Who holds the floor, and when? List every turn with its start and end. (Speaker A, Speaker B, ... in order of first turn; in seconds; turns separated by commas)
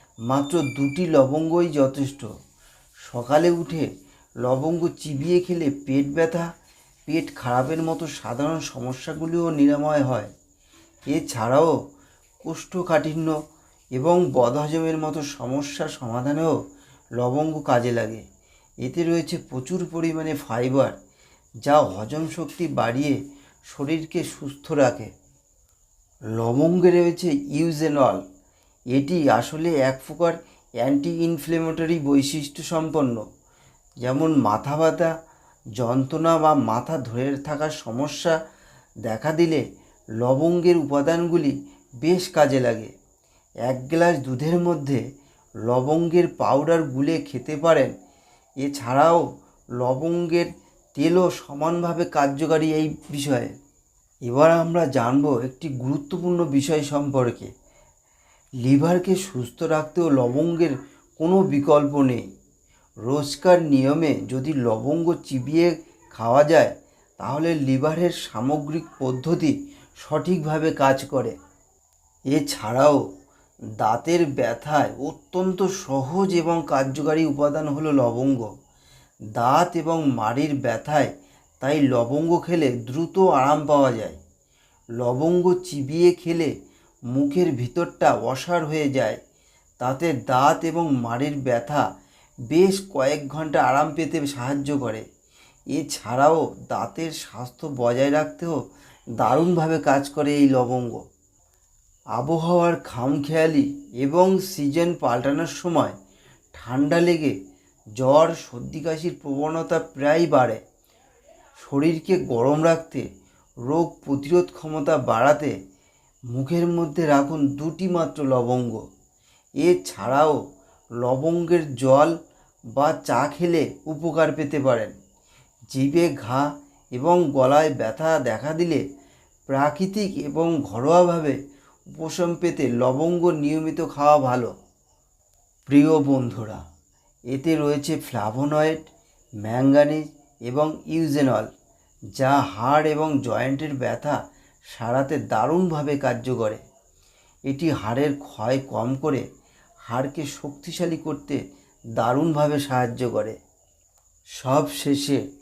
Speaker A: 0.3-2.3, Speaker A: 3.1-3.9, Speaker A: 4.4-6.5, Speaker A: 7.1-10.3, Speaker A: 11.1-11.8, Speaker A: 12.4-13.3, Speaker A: 13.9-16.6, Speaker A: 17.2-18.2, Speaker A: 18.8-21.0, Speaker A: 21.6-25.1, Speaker A: 26.4-28.2, Speaker A: 28.9-33.2, Speaker A: 34.0-35.1, Speaker A: 35.8-38.4, Speaker A: 39.1-39.6, Speaker A: 40.2-42.9, Speaker A: 43.6-45.0, Speaker A: 45.6-47.9, Speaker A: 48.6-49.2, Speaker A: 49.8-53.5, Speaker A: 54.2-57.5, Speaker A: 58.6-62.3, Speaker A: 63.0-71.3, Speaker A: 72.3-73.0, Speaker A: 73.8-78.5, Speaker A: 79.3-84.2, Speaker A: 85.0-86.5, Speaker A: 87.1-89.2, Speaker A: 89.8-91.9, Speaker A: 92.5-95.0, Speaker A: 95.7-98.6, Speaker A: 99.2-101.0, Speaker A: 102.2-106.0, Speaker A: 106.5-107.3, Speaker A: 108.0-110.6, Speaker A: 111.6-113.0, Speaker A: 113.7-115.5, Speaker A: 116.3-118.8, Speaker A: 119.6-120.4, Speaker A: 121.0-122.1, Speaker A: 122.7-124.9, Speaker A: 125.7-128.8, Speaker A: 129.5-131.4, Speaker A: 131.9-134.5, Speaker A: 135.7-136.6, Speaker A: 137.3-138.8, Speaker A: 139.4-141.5, Speaker A: 142.2-144.2, Speaker A: 144.7-146.6, Speaker A: 147.5-149.2, Speaker A: 149.9-151.4, Speaker A: 152.0-153.4, Speaker A: 154.4-155.2